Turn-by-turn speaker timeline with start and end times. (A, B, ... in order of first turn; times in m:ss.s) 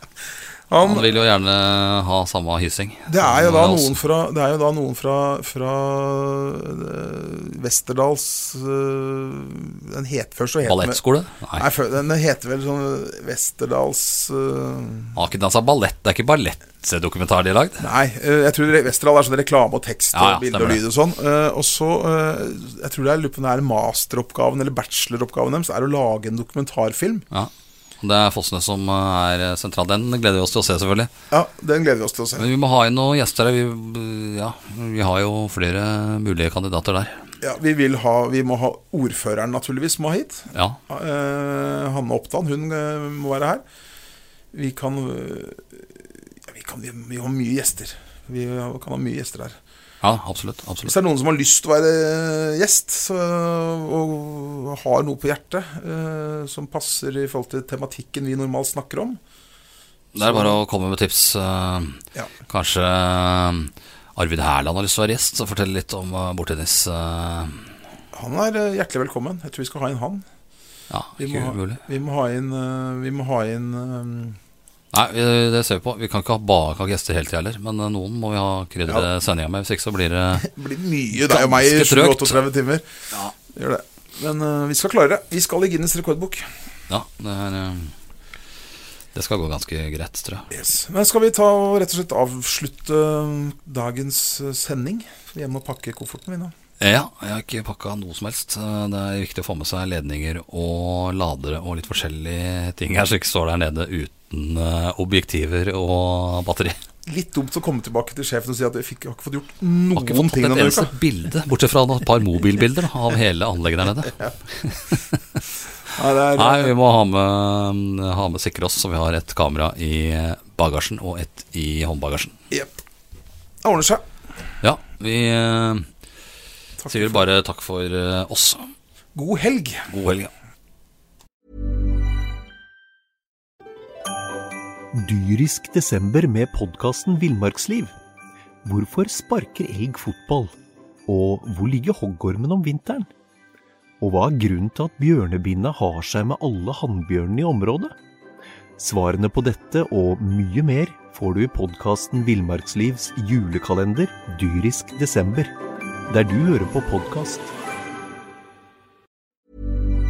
0:00.7-0:01.1 A
0:00.8-0:04.0 B
0:03.1-0:11.0 A
0:10.6-0:11.7 B
0:11.5-0:15.2 A
0:15.1-0:17.8 B
0:17.8-0:27.2 A
0:20.1-0:20.8 B
0:27.3-0:31.1 B
0:31.3-0:32.5 A
0:32.4-0:37.2 B
0:37.4-0:43.6 A
0:40.5-0:40.8 B
0:44.5-0:49.6 A
0:50.0-0:50.9 B
0:50.8-0:59.2 A
1:00.1-1:07.6 B
1:00.2-1:00.6 A
1:08.1-1:10.2 A
1:10.9-1:11.8 B
1:11.2-1:14.4 A
1:14.9-1:20.5 B
1:20.3-1:22.8 A
1:21.1-1:22.4 B
1:23.5-1:26.5 A
1:26.9-1:27.9 B
1:29.1-1:30.5 B
1:30.5-1:36.5 A
1:36.8-1:46.8 B
1:47.0-1:50.9 A
1:49.9-1:55.2 B
1:55.9-1:56.7 A
1:56.4-2:02.4 B
2:02.5-2:02.8 A
2:03.6-2:04.0 A
2:04.6-2:05.9 B
2:06.8-2:07.2 A
2:06.9-2:08.7 B
2:09.1-2:09.9 A
2:09.9-2:10.3 B
2:14.9-2:17.9 C
2:18.6-2:20.5 C
2:21.1-2:23.1 C
2:24.0-2:27.9 C
2:28.8-2:35.5 C
2:36.1-2:37.5 C